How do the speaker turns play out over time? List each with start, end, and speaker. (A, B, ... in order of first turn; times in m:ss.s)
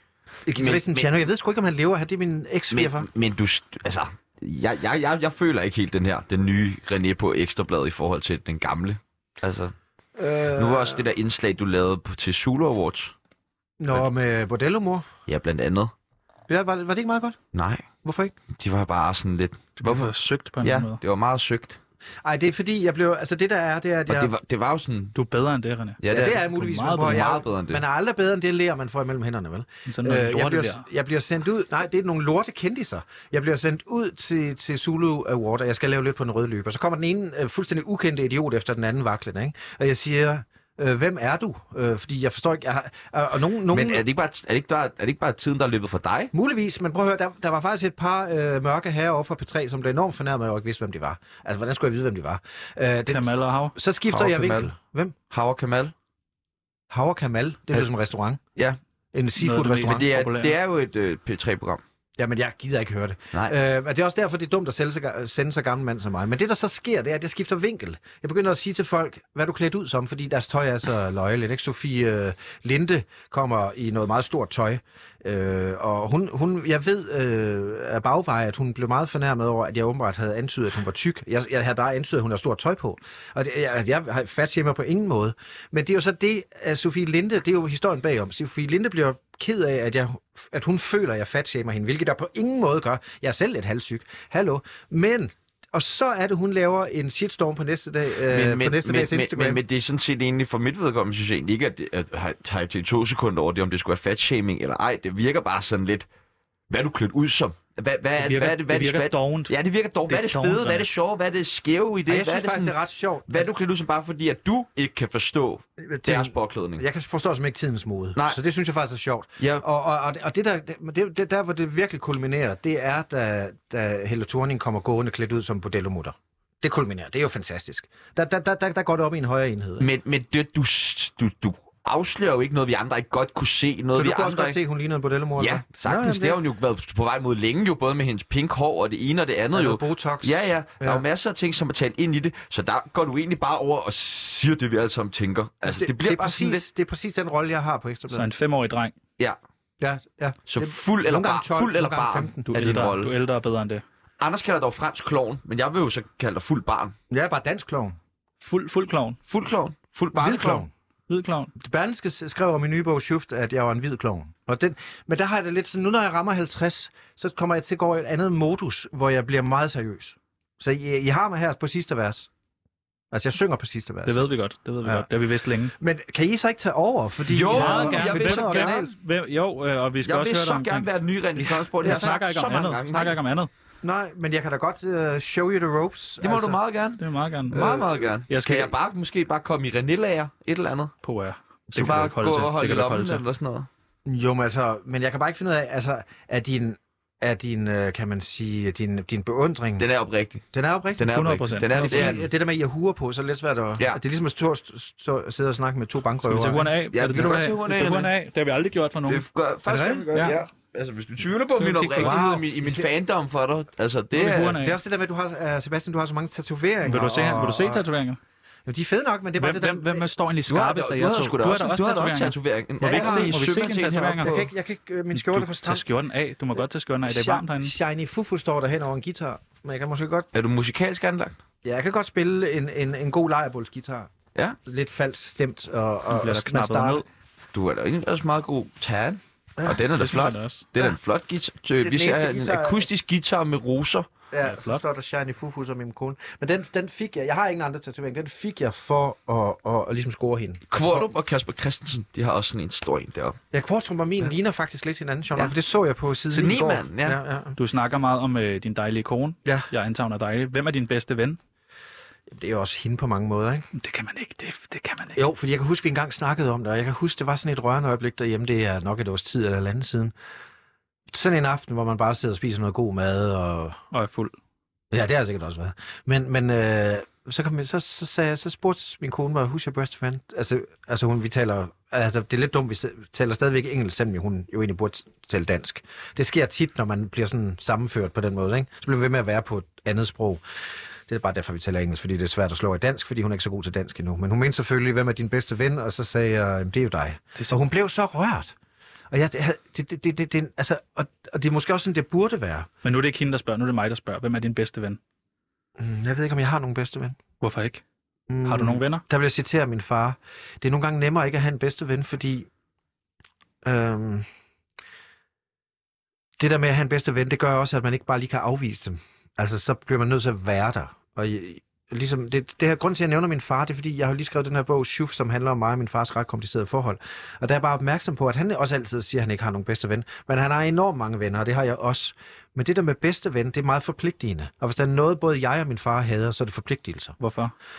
0:00.4-0:03.0 A
0:00.5-0:01.2 B
0:02.7-0:09.7 B
0:10.2-0:11.0 A
0:10.6-0:13.1 B
0:13.8-0:15.1 A
0:15.3-0:15.9 B
0:16.5-0:17.4 A
0:17.5-0:17.9 B
0:18.0-0:18.4 A
0:18.5-0:21.8 B
0:19.8-0:21.0 C
0:22.2-0:24.3 A
0:24.1-0:25.1 B
0:25.1-0:27.3 C
0:26.0-0:26.4 B
0:26.1-0:44.0 A
0:27.0-0:27.8 B
0:29.9-0:30.9 C
0:43.7-0:46.3 B
0:46.3-0:55.2 A
0:53.1-0:53.7 C
0:54.1-0:54.7 B
0:55.3-0:55.9 B
0:56.9-0:58.4 A
0:59.1-1:00.1 A
0:59.4-1:00.5 C
0:59.9-1:01.8 B
1:02.2-1:39.6 A
1:38.3-1:46.1 B
1:46.7-1:52.7 B
1:48.2-1:49.5 C
1:50.1-1:50.8 C
1:52.0-1:53.5 A
1:53.3-1:56.8 B
1:55.8-2:09.9 A
2:09.8-2:14.6 B
2:13.9-2:16.4 A
2:15.4-2:26.6 B
2:19.5-2:21.0 A
2:25.6-2:28.3 A
2:28.1-2:29.0 C
2:29.8-2:32.5 A
2:30.5-2:33.1 B
2:32.5-2:33.8 C
2:34.2-2:36.9 B
2:37.1-2:38.0 A
2:38.4-2:39.2 C
2:39.3-2:40.6 B
2:40.1-2:40.7 A
2:41.1-2:41.5 C
2:41.6-2:52.3 A
2:53.1-2:54.3 A
2:54.0-2:55.7 C
2:55.8-2:58.9 A
2:57.3-2:58.8 B
2:57.5-3:00.9 C
3:00.0-3:03.2 B
3:01.8-3:03.5 C
3:01.8-3:02.2 A
3:03.8-3:06.6 A
3:06.2-3:10.9 B
3:07.0-3:07.6 C
3:07.5-3:08.1 A
3:08.3-3:08.7 C
3:11.0-3:13.2 C
3:11.7-3:13.7 B
3:14.0-3:19.9 A
3:19.8-3:20.4 B
3:20.5-3:21.1 A
3:21.0-3:22.2 B
3:21.1-3:22.2 C
3:21.7-3:26.7 A
3:26.2-3:29.2 C
3:26.9-3:28.1 B
3:29.1-3:34.6 B
3:29.6-3:30.1 A
3:31.6-3:32.2 C
3:32.0-3:32.9 A
3:34.1-3:34.8 C
3:34.5-3:37.8 A
3:36.8-3:38.2 C
3:38.6-3:40.1 A
3:39.4-3:44.3 C
3:40.5-3:44.5 B
3:42.9-3:43.4 A
3:44.2-3:45.8 A
3:45.1-3:47.7 C
3:47.0-3:50.3 A
3:50.3-3:51.4 B
3:51.6-3:54.1 A
3:54.6-3:57.0 A
3:56.1-3:57.0 C
3:57.5-4:04.1 B
3:59.6-3:59.8 A
3:59.9-4:00.7 C
4:01.8-4:02.9 A
4:04.3-4:11.0 A
4:04.4-4:04.8 C
4:10.7-4:13.4 B
4:13.5-4:17.6 A
4:16.3-4:17.2 B
4:17.6-4:21.4 C
4:22.3-4:23.6 A
4:23.7-4:25.2 C
4:25.1-4:30.1 A
4:31.1-4:33.8 A
4:33.9-4:34.3 C
4:34.9-4:50.4 A
4:51.1-4:58.5 A
4:57.4-4:57.6 C
4:59.1-5:02.7 A
5:02.8-5:05.0 C
5:05.8-5:07.2 A
5:07.4-5:07.8 C
5:08.3-5:12.5 A
5:08.4-5:09.0 C
5:13.6-5:14.3 A
5:16.4-5:37.2 A
5:37.2-5:37.5 C